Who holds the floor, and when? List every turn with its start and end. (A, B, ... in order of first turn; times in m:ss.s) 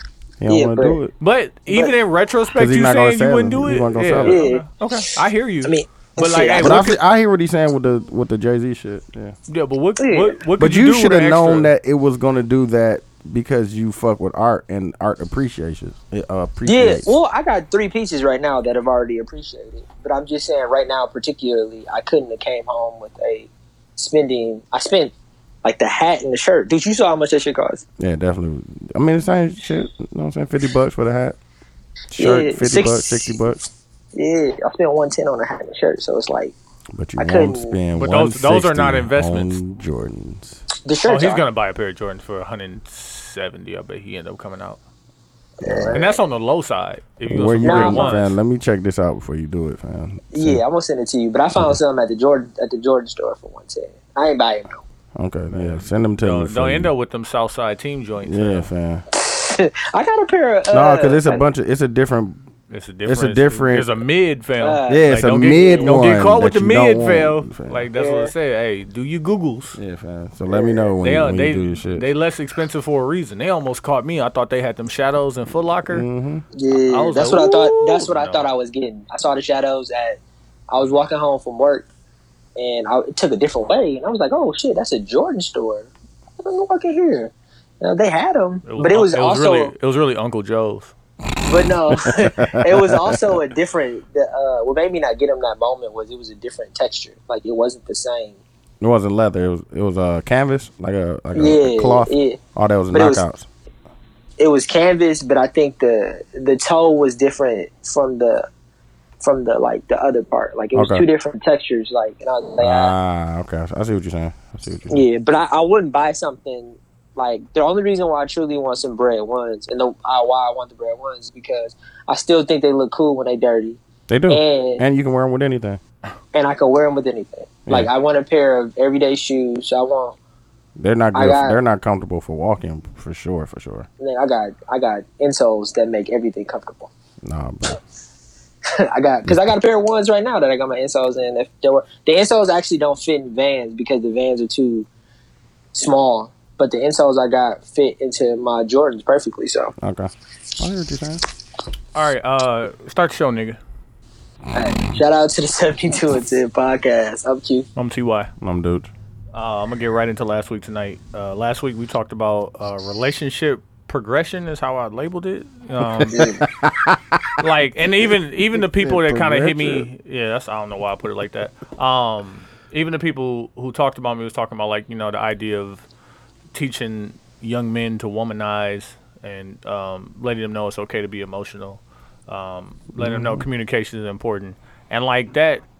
0:00.4-0:01.1 A
0:00.5-0:01.0 B
0:01.2-0:07.0 C
0:02.6-0:04.4 A
0:04.2-0:04.7 B
0:05.6-0:06.8 B
0:06.6-0:09.4 A
0:09.5-0:11.7 C
0:10.0-0:10.4 B
0:10.6-0:17.2 A
0:16.7-0:25.1 B
0:25.6-0:27.8 B
0:28.0-0:31.4 A
0:32.1-0:33.6 A
0:32.2-0:33.3 B
0:34.1-0:36.6 B
0:36.9-0:40.6 A
0:37.2-0:37.8 B
0:38.0-0:39.6 C
0:40.8-0:41.4 B
0:41.1-0:44.8 C
0:45.6-0:46.2 B
0:45.6-0:46.0 A
0:45.9-0:48.4 C
0:47.3-0:50.6 A
0:47.6-0:48.2 B
0:50.3-0:54.8 B
0:55.2-0:56.9 A
0:55.6-0:58.7 C
0:58.2-0:59.0 A
0:59.1-1:01.5 B
1:00.7-1:02.4 A
1:02.7-1:09.8 C
1:03.0-1:04.0 A
1:04.6-1:06.0 B
1:04.9-1:07.9 A
1:08.0-1:08.3 B
1:09.8-1:12.0 A
1:10.5-1:10.9 B
1:11.0-1:16.1 C
1:15.9-1:16.4 A
1:16.5-1:21.9 B
1:16.9-1:18.5 C
1:22.6-1:29.7 B
1:28.7-1:30.9 C
1:31.4-1:38.4 B
1:31.9-1:33.4 A
1:38.8-1:43.5 A
1:41.3-1:42.4 B
1:42.9-1:43.2 B
1:44.4-1:48.5 B
1:49.2-1:52.9 B
1:50.8-1:51.0 A
1:52.6-1:55.0 A
1:54.9-2:04.8 B
2:04.1-2:05.8 A
2:06.3-2:10.2 B
2:10.8-2:13.9 A
2:11.2-2:11.6 B
2:14.0-2:16.9 B
2:17.2-2:17.8 A
2:18.8-2:24.9 B
2:19.2-2:19.5 A
2:25.7-2:29.7 B
2:29.8-2:31.2 A
2:32.0-2:33.6 C
2:34.6-2:37.7 B
2:37.8-2:38.3 C
2:38.4-2:38.9 A
2:39.3-2:46.3 C
2:45.8-2:47.5 A
2:46.1-2:46.4 B
2:47.4-2:55.9 C
2:48.5-2:49.9 A
2:56.5-3:05.6 C
3:03.0-3:03.5 A